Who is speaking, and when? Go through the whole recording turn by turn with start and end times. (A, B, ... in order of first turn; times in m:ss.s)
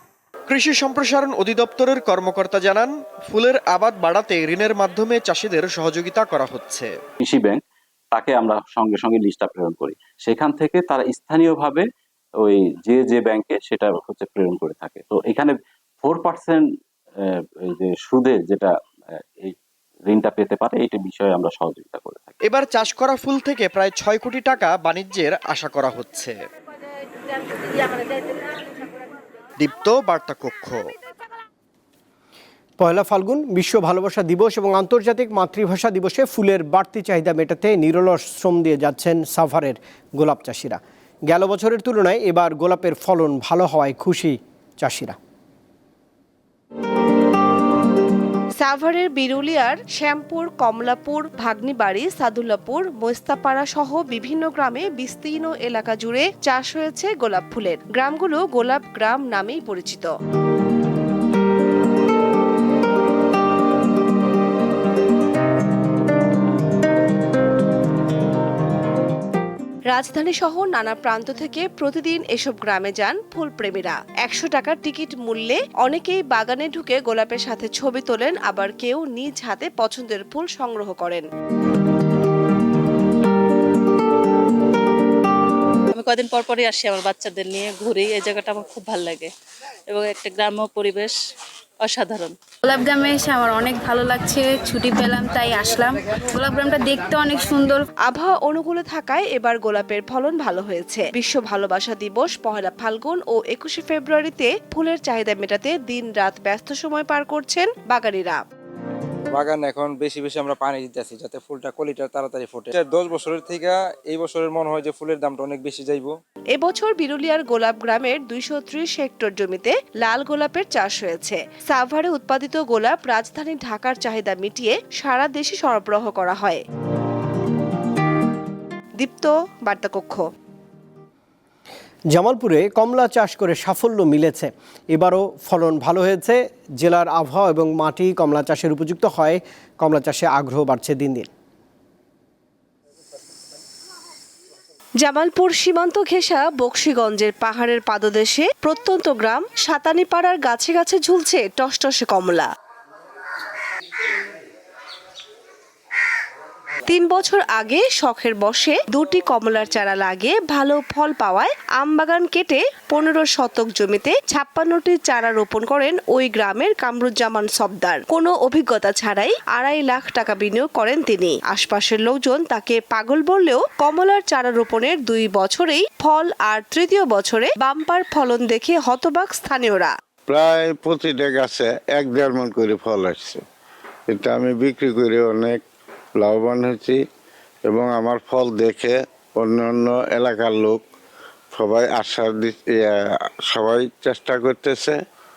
0:00.5-0:06.9 A
0:07.2-0:07.6 B
0:08.1-0:11.8 B
0:12.4-0:16.6 B
0:17.7-0:18.7 B
0:20.1-0:22.3 B
0:22.4-0:26.4 A
0:29.6-0:30.8 A
0:32.8-0:45.2 C
0:48.6-1:00.1 D
1:09.9-1:21.2 D
1:26.0-1:29.3 E
1:29.9-1:31.1 E
1:31.8-1:32.3 E
1:32.6-1:37.8 F
1:38.0-1:48.4 D
1:49.3-1:56.1 G
1:56.5-2:06.6 D
2:09.0-2:10.2 D
2:12.1-2:21.3 C
2:25.0-2:32.5 D
2:36.8-2:59.9 D
3:00.3-3:03.4 H
3:04.1-3:05.6 H
3:06.2-3:07.0 H
3:07.6-3:10.8 H
3:11.5-3:15.0 H